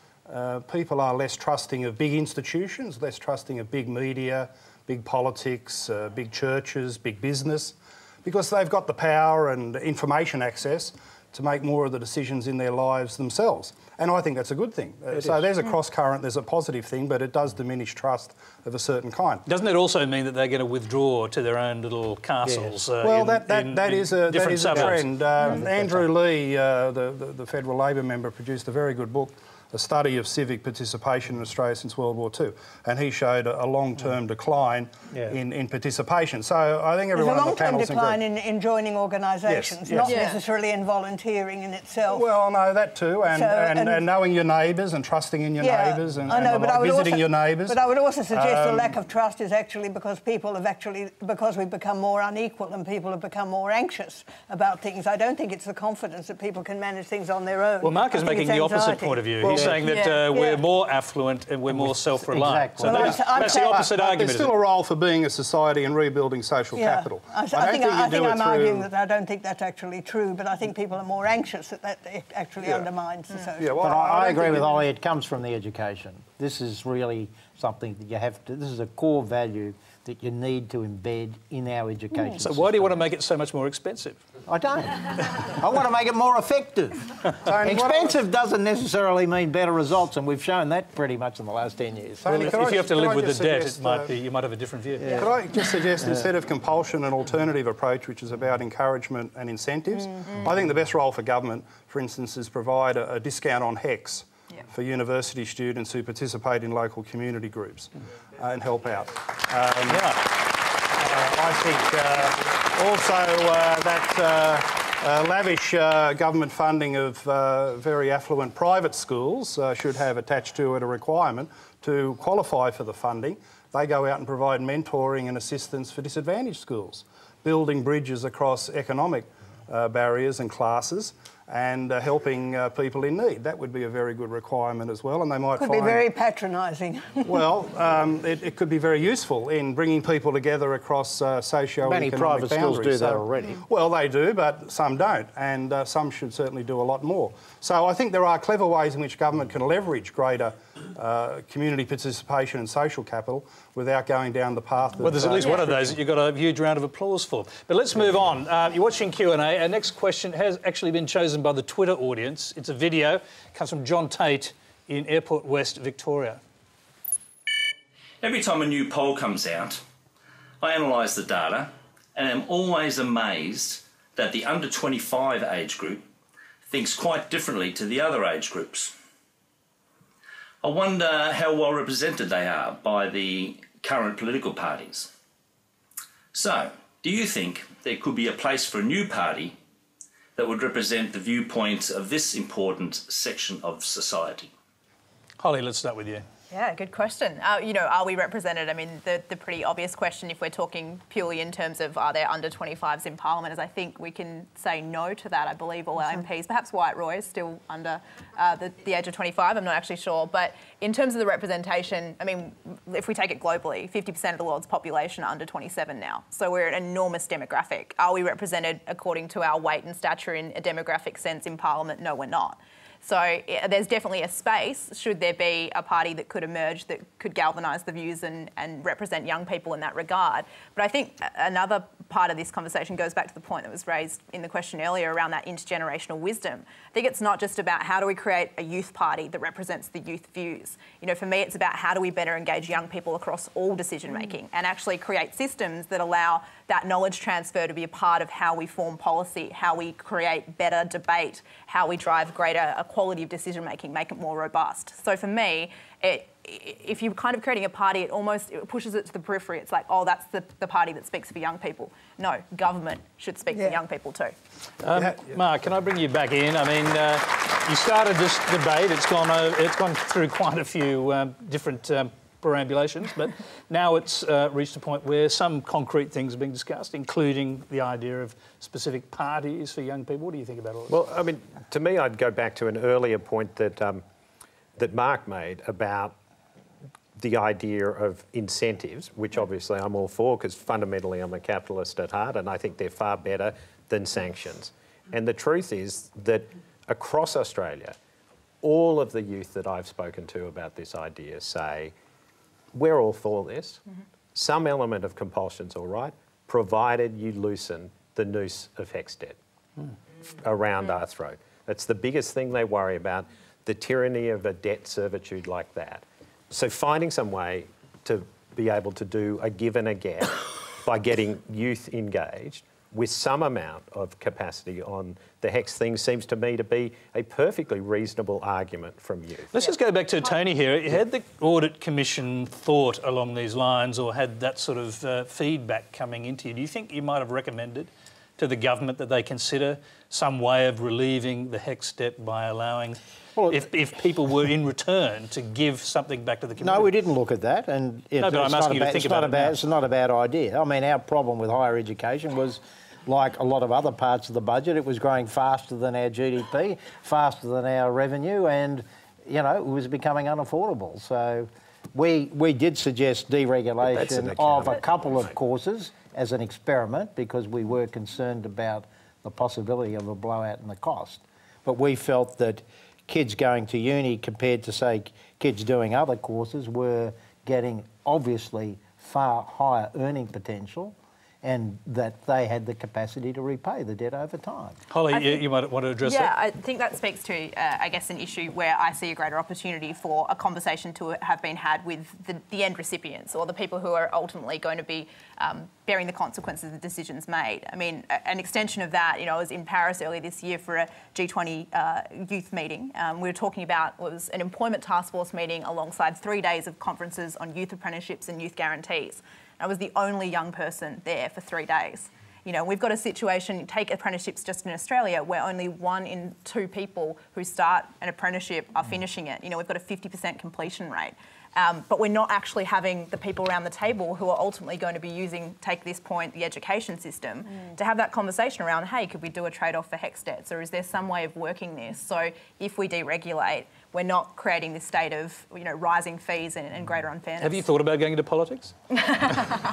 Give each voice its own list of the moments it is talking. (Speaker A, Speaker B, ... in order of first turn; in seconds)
Speaker A: 0.3-19.4, 23.0-38.2, 39.5-40.3, 42.1-49.0, 59.4-59.9, 62.8-68.9, 73.6-74.8, 87.4-88.2, 92.2-94.1, 95.1-136.0, 137.2-156.0, 265.0-265.3
Speaker B: 19.4-25.2, 57.8-64.6, 82.3-84.2, 92.3-95.3, 109.9-110.2, 155.0-166.4, 195.4-196.2, 264.8-280.9, 329.5-346.9, 348.2-349.5, 384.9-386.3, 437.4-438.7
Speaker C: 37.1-42.2, 43.3-44.0, 45.6-60.6, 62.9-63.9, 66.7-73.9, 135.6-137.4
Speaker D: 40.1-40.4, 59.9-60.2, 196.5-264.3, 385.1-385.4, 386.0-437.6
Speaker E: 61.7-63.2, 73.8-82.9, 84.5-92.5, 95.0-95.3, 141.8-143.6, 343.4-343.7, 346.6-384.8
Speaker F: 168.2-169.8, 170.6-176.0, 176.7-178.9, 180.6-185.1, 186.3-189.5, 190.3-194.5
Speaker G: 280.9-284.0, 284.8-286.1, 287.1-297.9, 298.6-301.9, 302.7-303.8, 304.3-309.4, 310.4-329.5, 363.9-365.3